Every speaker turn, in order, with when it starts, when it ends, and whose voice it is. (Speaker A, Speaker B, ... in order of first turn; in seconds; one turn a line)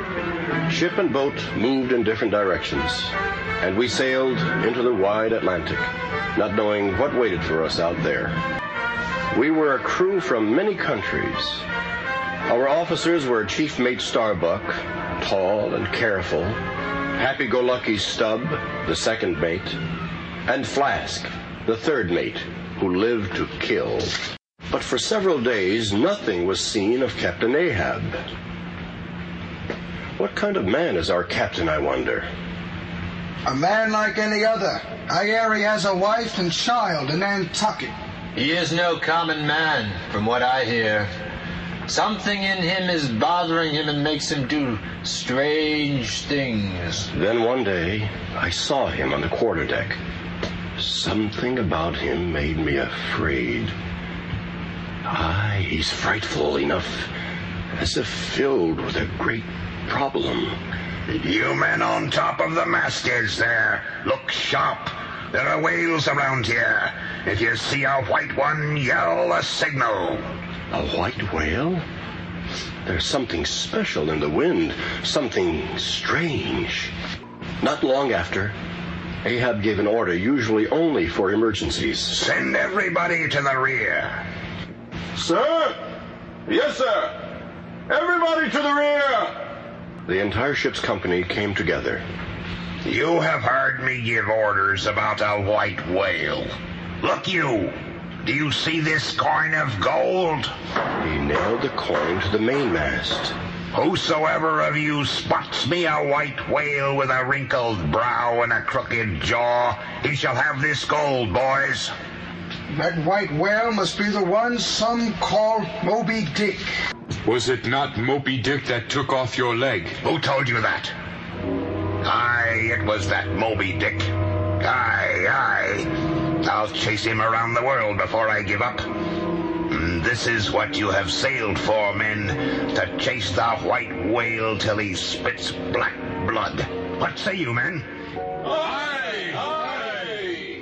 Speaker A: 0.7-8.4
Speaker A: 9.3-11.6
Speaker A: 12.5-16.6
Speaker A: 17.2-19.8
Speaker A: 20.5-24.2
Speaker A: 24.7-28.2
Speaker A: 30.2-32.3
Speaker B: 33.5-37.9
Speaker C: 38.4-41.1
Speaker C: 41.9-47.1
Speaker A: 47.1-50.0
Speaker A: 50.8-53.7
Speaker A: 55.1-57.1
Speaker A: 57.8-60.6
Speaker D: 61.1-70.2
Speaker A: 70.7-71.8
Speaker A: 72.9-76.9
Speaker A: 77.6-78.5
Speaker A: 79.2-82.2
Speaker D: 82.1-84.2
Speaker A: 85.2-85.8
Speaker A: 86.5-87.1
Speaker A: 87.9-89.3
Speaker A: 90.1-92.0
Speaker D: 92.8-100.5
Speaker A: 101.0-103.3
Speaker D: 103.7-111.9
Speaker B: 112.7-116.6
Speaker E: 117.3-120.0
Speaker D: 120.0-120.9
Speaker D: 122.0-128.9
Speaker D: 129.7-137.8
Speaker E: 138.6-139.9